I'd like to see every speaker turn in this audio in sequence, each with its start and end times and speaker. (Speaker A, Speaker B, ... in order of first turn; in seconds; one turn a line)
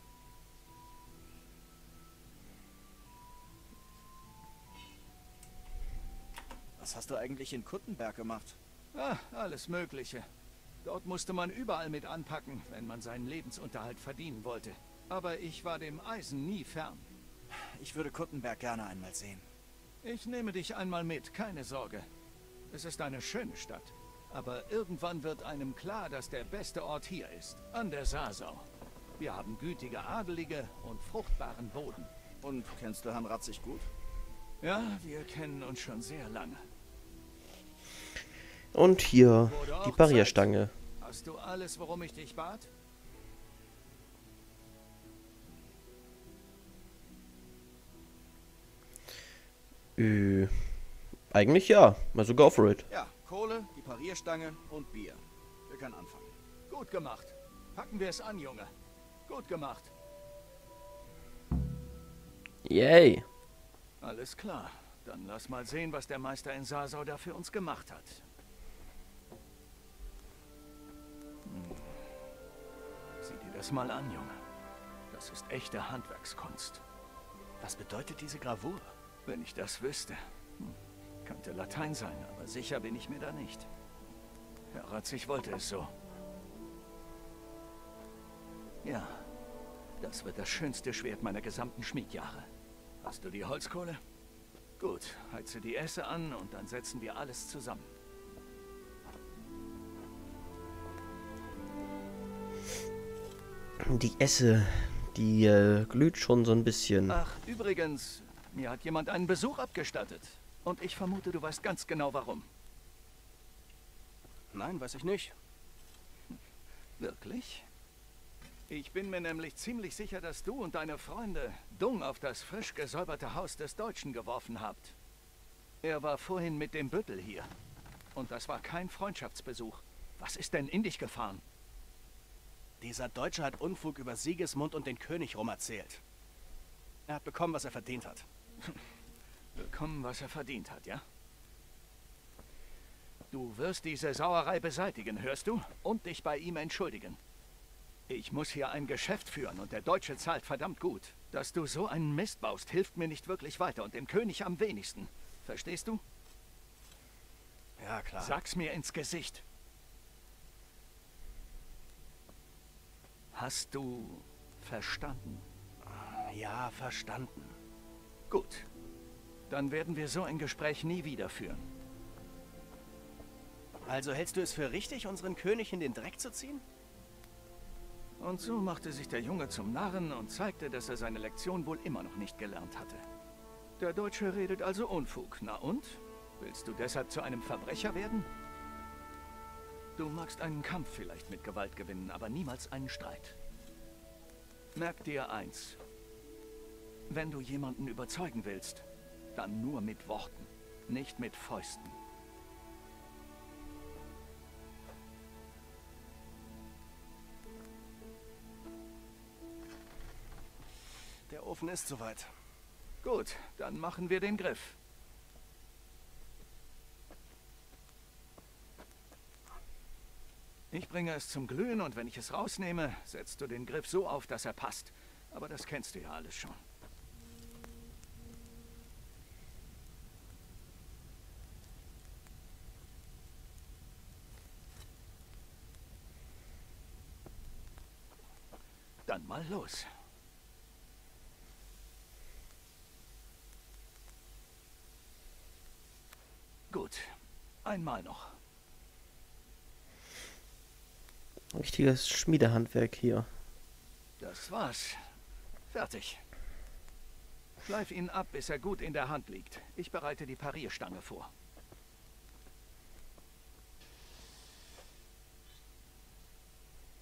Speaker A: 6.8-8.6
Speaker B: 8.9-10.2
Speaker B: 10.8-17.1
Speaker A: 17.5-19.5
Speaker B: 20.0-22.1
Speaker B: 22.7-28.6
Speaker B: 29.2-32.1
Speaker A: 32.4-33.9
Speaker B: 34.6-36.6
Speaker C: 38.7-40.7
Speaker B: 39.5-40.5
Speaker B: 41.0-42.7
Speaker C: 50.0-50.5
Speaker C: 51.3-52.9
Speaker A: 52.9-56.3
Speaker B: 56.7-58.7
Speaker B: 59.3-59.9
Speaker C: 62.6-63.2
Speaker B: 64.0-68.2
Speaker B: 71.5-72.0
Speaker B: 73.2-74.4
Speaker B: 75.1-76.8
Speaker A: 77.6-78.9
Speaker B: 79.2-83.7
Speaker B: 84.7-85.9
Speaker B: 88.8-89.3
Speaker B: 90.0-92.5
Speaker B: 93.0-94.0
Speaker B: 94.8-97.9
Speaker C: 103.8-107.2
Speaker B: 107.1-112.5
Speaker A: 114.5-115.3
Speaker B: 117.0-117.6
Speaker B: 118.7-124.9
Speaker B: 125.8-127.5
Speaker B: 128.1-131.4
Speaker A: 132.8-136.0
Speaker A: 137.1-138.8
Speaker B: 139.6-141.0
Speaker B: 143.3-147.2
Speaker B: 148.1-156.0
Speaker A: 157.8-158.4
Speaker B: 158.2-159.4
Speaker B: 163.3-165.4
Speaker A: 165.9-167.6
Speaker B: 168.3-168.7
Speaker B: 169.5-171.7
Speaker A: 173.8-176.6
Speaker B: 178.2-183.0
Speaker B: 183.8-188.3
Speaker B: 190.0-193.3
Speaker B: 194.7-195.8
Speaker B: 197.1-201.9
Speaker A: 211.3-212.3
Speaker B: 213.0-214.8
Speaker B: 220.7-226.6
Speaker B: 239.1-239.8
Speaker B: 246.7-247.1
Speaker B: 247.6-248.3
Speaker C: 251.5-253.3
Speaker B: 254.2-255.0
Speaker B: 255.7-256.2
Speaker B: 257.6-261.3